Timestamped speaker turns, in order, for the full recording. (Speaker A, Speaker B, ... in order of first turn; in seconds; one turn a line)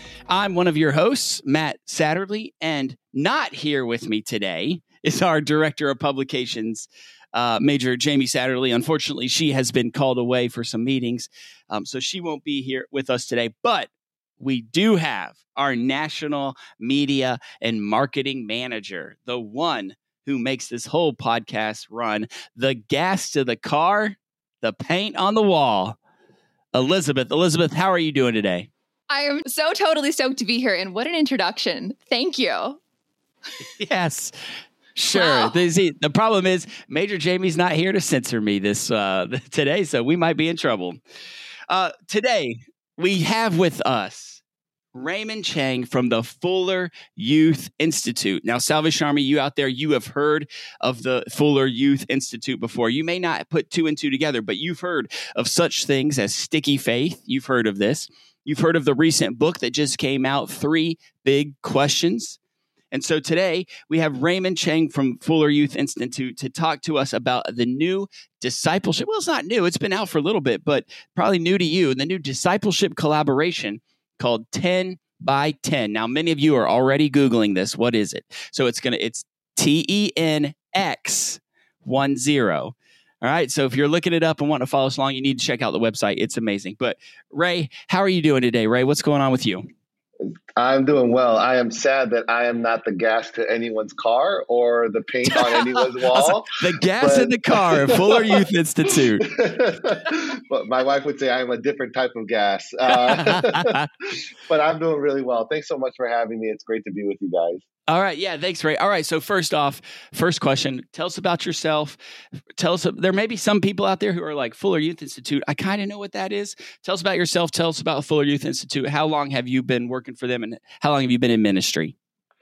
Speaker A: 0.3-26.0
Speaker A: 26.7-28.7
Speaker B: 29.1-32.8
Speaker A: 33.8-34.3
Speaker A: 35.0-41.0
Speaker B: 35.1-35.6
Speaker A: 41.7-44.4
Speaker A: 44.9-62.4
Speaker A: 62.9-89.7
Speaker C: 90.6-98.4
Speaker A: 95.3-99.3
Speaker C: 99.2-107.6
Speaker A: 102.9-103.9
Speaker A: 107.9-112.0
Speaker A: 112.6-122.0